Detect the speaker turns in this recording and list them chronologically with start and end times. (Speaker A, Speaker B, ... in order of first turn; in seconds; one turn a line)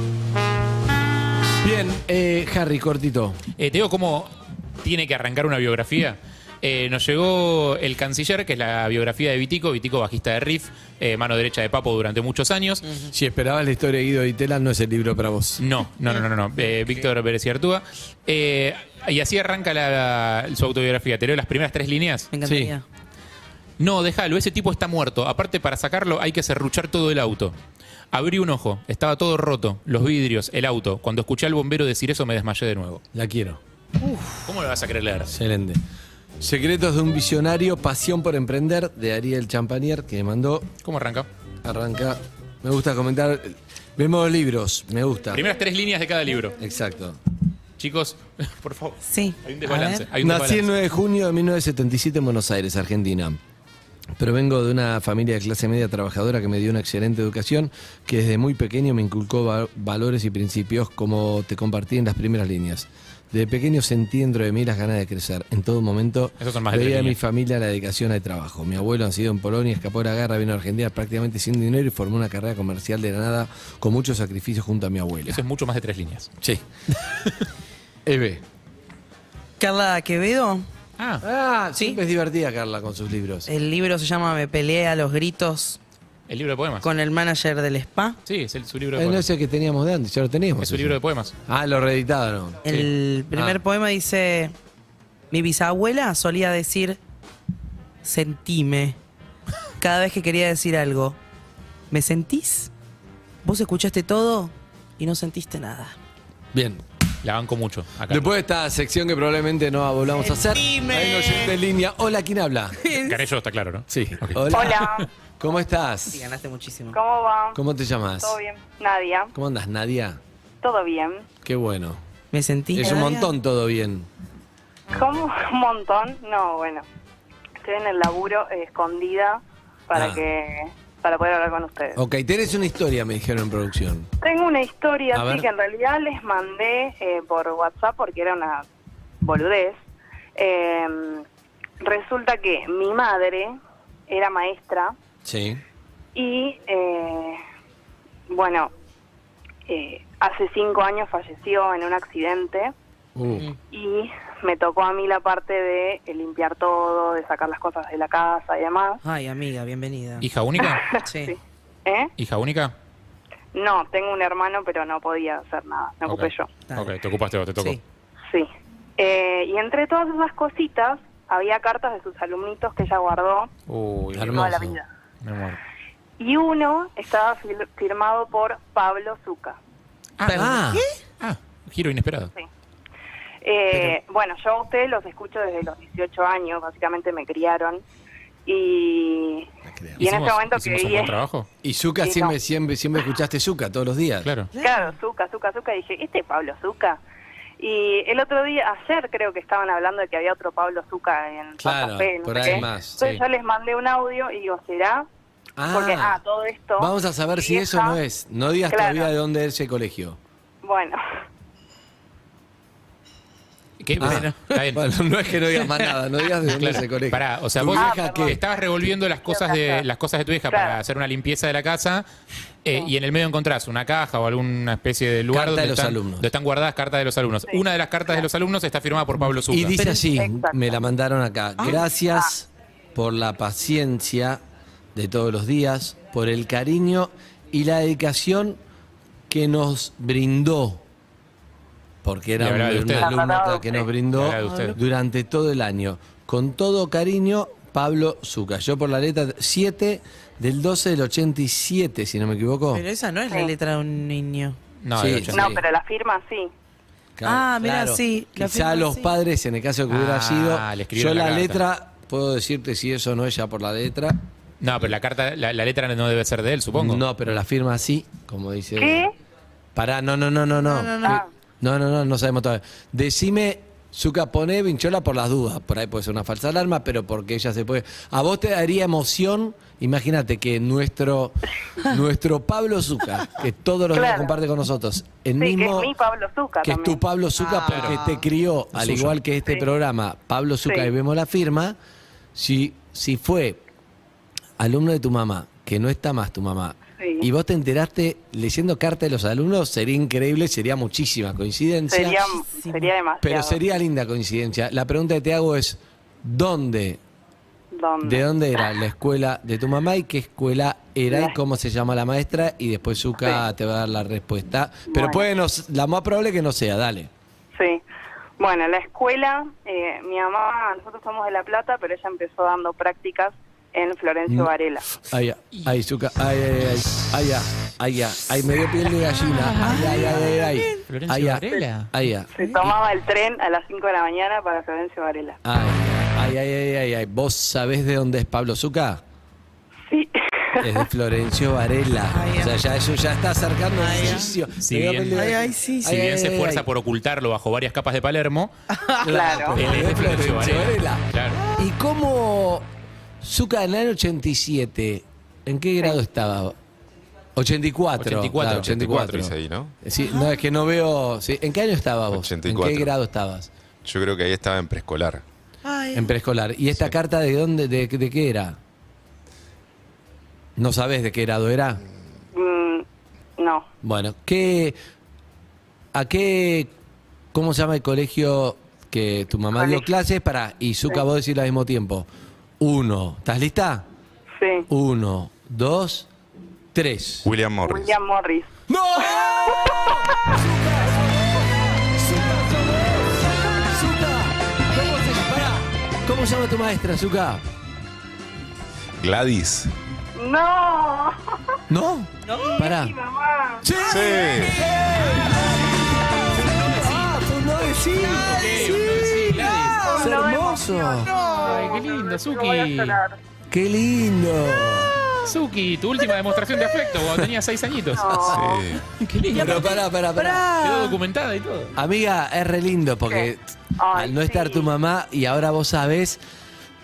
Speaker A: 1.6-3.4
Speaker B: 3.6-12.8
Speaker A: 13.1-15.6
Speaker B: 15.6-22.3
Speaker C: 22.3-22.8
Speaker A: 22.4-22.7
Speaker B: 23.8-27.6
Speaker B: 28.1-33.0
Speaker A: 33.1-33.6
Speaker B: 34.3-35.3
Speaker A: 35.3-35.8
Speaker A: 36.4-40.7
Speaker B: 40.8-41.3
Speaker A: 41.6-45.4
Speaker B: 45.3-46.6
Speaker A: 46.6-47.2
Speaker B: 47.8-50.7
Speaker C: 49.0-50.1
Speaker A: 50.2-53.4
Speaker A: 54.2-75.4
Speaker B: 66.4-67.2
Speaker B: 75.2-76.3
Speaker A: 78.0-78.4
Speaker C: 79.6-80.6
Speaker B: 81.0-81.2
Speaker A: 81.2-83.5
Speaker C: 83.5-85.8
Speaker B: 86.3-86.9
Speaker C: 86.8-88.2
Speaker B: 88.2-89.2
Speaker A: 88.9-91.0
Speaker B: 90.6-91.3
Speaker A: 91.5-92.7
Speaker C: 92.6-94.5
Speaker A: 93.3-93.6
Speaker C: 95.3-97.0
Speaker C: 98.0-99.0
Speaker C: 99.8-101.2
Speaker C: 101.9-102.7
Speaker C: 103.4-106.0
Speaker A: 106.5-106.8
Speaker B: 107.2-108.3
Speaker A: 108.1-112.9
Speaker C: 110.7-111.4
Speaker C: 112.8-113.2
Speaker B: 113.0-115.0
Speaker A: 113.9-114.8
Speaker D: 114.5-115.1
Speaker A: 115.4-116.2
Speaker C: 116.1-117.0
Speaker D: 116.9-117.6
Speaker A: 117.5-118.4
Speaker D: 118.2-119.3
Speaker A: 119.3-120.2
Speaker D: 120.6-121.2
Speaker A: 121.4-122.0
Speaker C: 122.3-123.3
Speaker A: 122.7-124.1
Speaker D: 122.8-123.0
Speaker D: 124.9-126.8
Speaker D: 127.6-132.0
Speaker A: 129.9-130.2
Speaker A: 131.9-134.1
Speaker D: 134.2-138.6
Speaker A: 135.1-135.5
Speaker D: 139.2-139.8
Speaker D: 140.3-141.2
Speaker D: 141.8-143.5
Speaker D: 144.1-144.9
Speaker A: 145.2-145.6
Speaker D: 146.1-147.4
Speaker D: 148.3-148.7
Speaker D: 149.7-152.7
Speaker A: 153.2-153.5
Speaker D: 153.7-159.0
Speaker C: 159.0-160.3
Speaker B: 160.2-160.8
Speaker D: 160.6-161.3
Speaker C: 161.1-161.3
Speaker D: 161.8-162.1
Speaker B: 162.2-162.7
Speaker D: 163.5-166.5
Speaker B: 166.1-167.8
Speaker D: 168.3-173.5
Speaker B: 173.7-174.5
Speaker A: 174.1-174.8
Speaker D: 174.2-174.8
Speaker B: 175.2-175.6
Speaker D: 176.2-179.6
Speaker B: 180.2-180.7
Speaker A: 180.2-180.8
Speaker B: 181.2-182.3
Speaker D: 183.4-187.8
Speaker D: 188.4-189.5
Speaker B: 190.0-191.5
Speaker D: 190.0-191.2
Speaker A: 191.6-194.3
Speaker D: 192.0-192.3
Speaker B: 194.2-194.5
Speaker C: 194.5-194.9
Speaker D: 194.6-197.0
Speaker D: 197.6-205.0
Speaker A: 201.6-203.0
Speaker B: 202.4-203.2
Speaker A: 205.6-206.2
Speaker D: 205.7-208.0
Speaker A: 206.8-210.2
Speaker D: 208.7-209.1
Speaker D: 210.6-211.0
Speaker B: 213.8-214.8
Speaker A: 214.0-218.4
Speaker B: 215.6-222.0
Speaker D: 217.7-218.4
Speaker D: 219.2-219.8
Speaker D: 220.5-220.8
Speaker B: 222.6-229.8
Speaker A: 225.3-226.3
Speaker D: 227.4-228.3
Speaker A: 229.5-234.4
Speaker D: 229.8-230.7
Speaker D: 231.6-232.3
Speaker A: 234.9-238.6
Speaker A: 239.3-240.8
Speaker A: 242.0-252.8
Speaker B: 242.4-243.2
Speaker D: 243.0-243.9
Speaker B: 244.1-244.8
Speaker C: 244.4-244.7
Speaker C: 252.7-254.6
Speaker D: 253.3-253.5
Speaker B: 254.8-255.6
Speaker A: 254.9-255.5
Speaker D: 255.3-256.5
Speaker A: 257.2-264.1
Speaker C: 257.2-259.1
Speaker B: 259.9-261.6
Speaker B: 264.6-267.0
Speaker A: 266.7-269.1
Speaker D: 268.8-269.1
Speaker A: 269.7-285.9
Speaker C: 270.7-271.2
Speaker D: 283.9-284.4
Speaker D: 285.4-287.0
Speaker A: 286.6-291.8
Speaker C: 287.4-288.2
Speaker B: 287.7-288.0
Speaker B: 288.7-289.2
Speaker D: 290.6-290.9
Speaker A: 292.3-293.6
Speaker A: 294.6-302.3
Speaker D: 297.0-297.3
Speaker D: 301.9-303.6
Speaker C: 302.5-302.9
Speaker A: 303.2-307.0
Speaker D: 307.7-308.2
Speaker A: 308.0-317.1
Speaker D: 311.1-311.4
Speaker D: 314.9-315.3
Speaker D: 317.5-317.8
Speaker D: 318.4-324.9
Speaker A: 324.2-332.3
Speaker B: 325.5-325.8
Speaker B: 329.4-330.2
Speaker C: 330.1-330.8
Speaker B: 330.9-331.9
Speaker D: 332.4-335.4
Speaker A: 335.4-339.0
Speaker D: 339.9-340.8
Speaker A: 340.6-346.7
Speaker C: 342.1-342.6
Speaker C: 343.8-344.4
Speaker B: 344.6-345.3
Speaker C: 345.1-345.9
Speaker B: 345.9-348.5
Speaker C: 348.7-349.2
Speaker A: 349.0-352.7
Speaker D: 349.1-349.6
Speaker B: 349.6-351.4
Speaker A: 353.2-356.6
Speaker A: 357.4-363.5
Speaker B: 358.0-359.2
Speaker E: 358.5-359.8
Speaker C: 360.0-360.4
Speaker E: 362.1-362.9
Speaker E: 363.8-365.2
Speaker C: 365.6-366.1
Speaker A: 365.9-368.6
Speaker A: 370.6-371.8
Speaker D: 372.3-372.8
Speaker D: 373.4-373.6
Speaker A: 373.8-374.8
Speaker A: 375.9-376.7
Speaker A: 377.3-382.1
Speaker D: 379.6-379.9
Speaker A: 382.6-383.9
Speaker D: 384.4-384.7
Speaker A: 384.7-386.1
Speaker A: 386.7-387.3
Speaker E: 387.2-388.0
Speaker D: 387.6-388.5
Speaker A: 388.7-397.4
Speaker E: 399.0-399.7
Speaker D: 400.1-401.1
Speaker A: 401.7-402.9
Speaker C: 402.2-402.7
Speaker D: 402.6-403.8
Speaker A: 403.6-411.1
Speaker E: 403.8-404.6
Speaker B: 406.7-407.1
Speaker C: 408.1-408.6
Speaker B: 408.3-410.1
Speaker C: 409.3-410.1
Speaker D: 409.7-413.2
Speaker C: 411.0-411.9
Speaker B: 411.4-413.0
Speaker A: 413.5-415.0
Speaker B: 415.2-419.9
Speaker D: 417.9-418.6
Speaker E: 418.2-418.8
Speaker C: 419.3-421.0
Speaker A: 419.3-420.4
Speaker B: 420.6-421.7
Speaker A: 421.8-423.4
Speaker D: 423.1-424.7
Speaker A: 423.9-426.2